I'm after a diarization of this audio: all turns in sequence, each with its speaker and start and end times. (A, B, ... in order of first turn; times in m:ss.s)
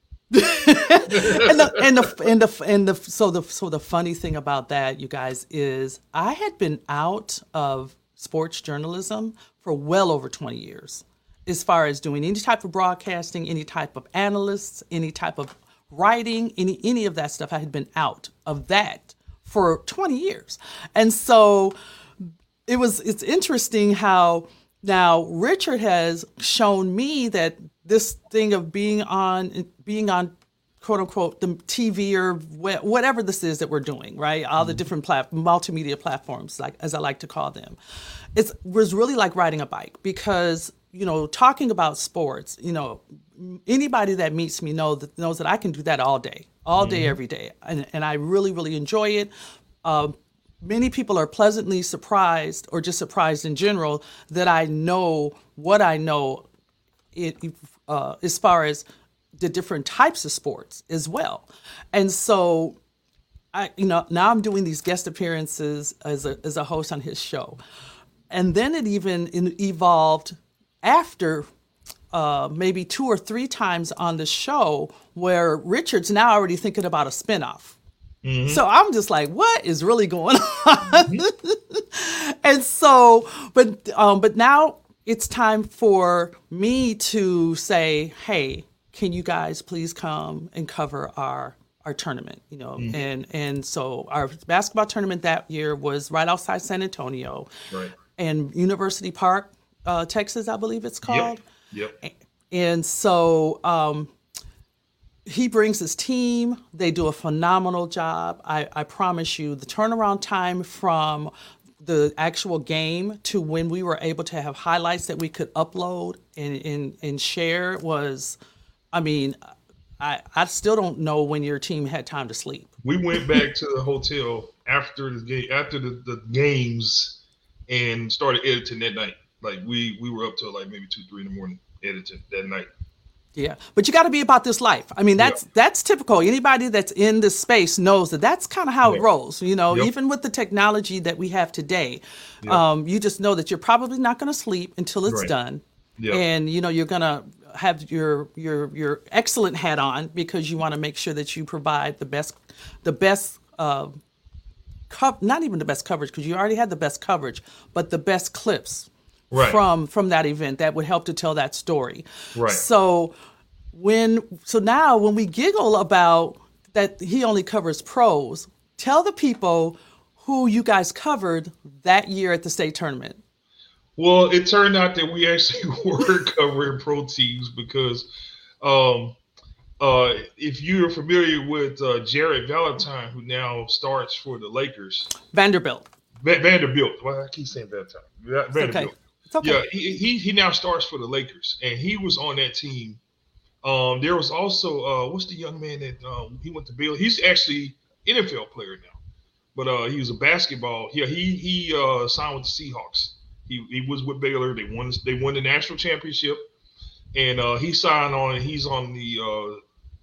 0:00.3-0:21.8 A
0:01.1-0:01.8 B
0:22.7-0:37.8 A
0:38.3-0:49.3 A
0:46.8-0:47.2 B
0:49.8-0:56.4 A
0:57.1-0:58.8 A
0:59.4-1:02.8 A
1:03.5-1:07.6 A
1:08.3-1:11.5 A
1:12.1-1:17.8 A
1:18.2-1:18.6 B
1:18.4-1:37.5 A
1:20.9-1:21.2 B
1:32.8-1:33.0 B
1:37.7-1:37.9 B
1:38.2-1:41.4 A
1:41.0-1:42.0 B
1:42.0-1:44.1 A
1:45.2-1:58.4 A
1:58.9-2:03.4 A
2:02.8-2:12.7 B
2:13.4-2:34.0 A
2:25.1-2:25.3 B
2:26.0-2:26.2 B
2:34.9-2:43.1 A
2:39.3-2:39.6 B
2:42.3-2:42.6 B
2:43.7-2:53.2 A
2:54.0-2:58.1 B
2:58.6-2:59.2 B
2:59.8-3:05.1 B
3:05.3-3:05.9 A
3:06.2-3:13.0 B
3:08.5-3:09.6 A
3:13.6-3:19.0 B
3:19.5-3:26.4 B
3:27.1-3:29.6 B